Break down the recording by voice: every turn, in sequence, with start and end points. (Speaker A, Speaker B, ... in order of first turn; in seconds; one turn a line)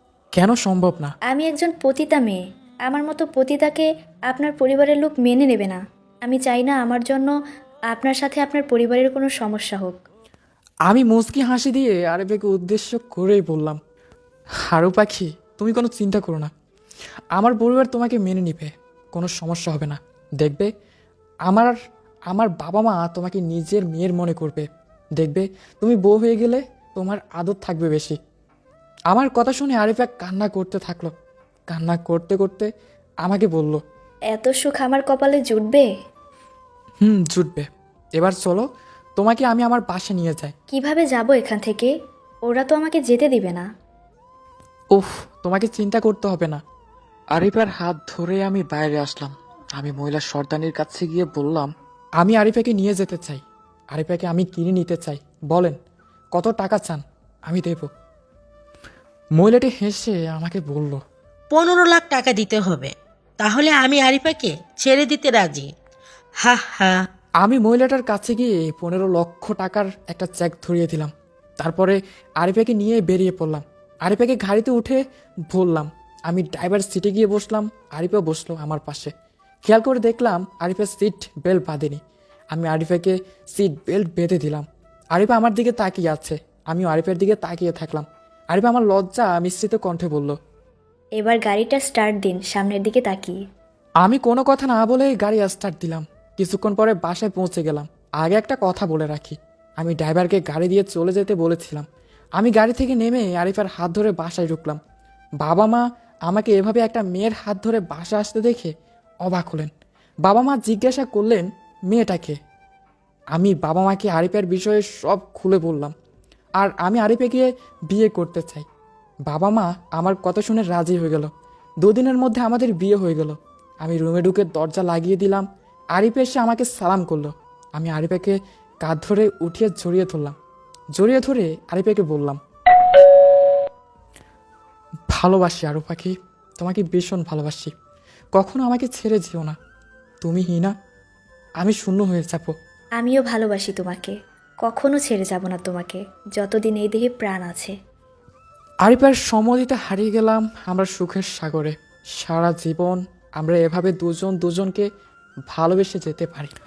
Speaker A: 0.4-1.1
Speaker B: 1.3-7.3
Speaker B: 7.9-10.0
Speaker A: 10.9-13.8
Speaker A: 14.7-16.5
Speaker A: 17.4-20.7
Speaker A: 21.5-21.7
Speaker A: 22.3-24.7
Speaker A: 25.2-28.2
Speaker A: 29.1-31.1
Speaker A: 31.7-32.7
Speaker A: 33.2-33.8
Speaker B: 34.3-35.9
Speaker A: 37.0-38.7
Speaker A: 39.2-40.5
Speaker B: 40.7-41.9
Speaker B: 42.5-43.7
Speaker A: 44.9-46.6
Speaker A: 47.4-53.4
Speaker A: 53.9-55.8
Speaker A: 56.4-57.9
Speaker A: 59.4-61.0
Speaker C: 61.5-65.7
Speaker C: 66.4-67.0
Speaker A: 67.4-75.0
Speaker A: 75.5-79.1
Speaker A: 79.7-82.0
Speaker A: 82.5-90.3
Speaker B: 91.2-93.4
Speaker A: 94.0-101.9
Speaker A: 102.4-104.8
Speaker A: 105.4-108.7
Speaker A: 109.2-109.7
Speaker A: 110.3-112.4
Speaker A: 113.3-115.9
Speaker A: 116.6-118.7
Speaker A: 119.3-121.3
Speaker A: 121.8-130.3
Speaker A: 131.0-132.4
Speaker A: 135.1-137.7
Speaker A: 138.3-139.6
Speaker A: 140.2-140.7
Speaker A: 141.6-142.5
Speaker B: 143.0-147.7
Speaker A: 148.8-154.9
Speaker A: 155.5-156.5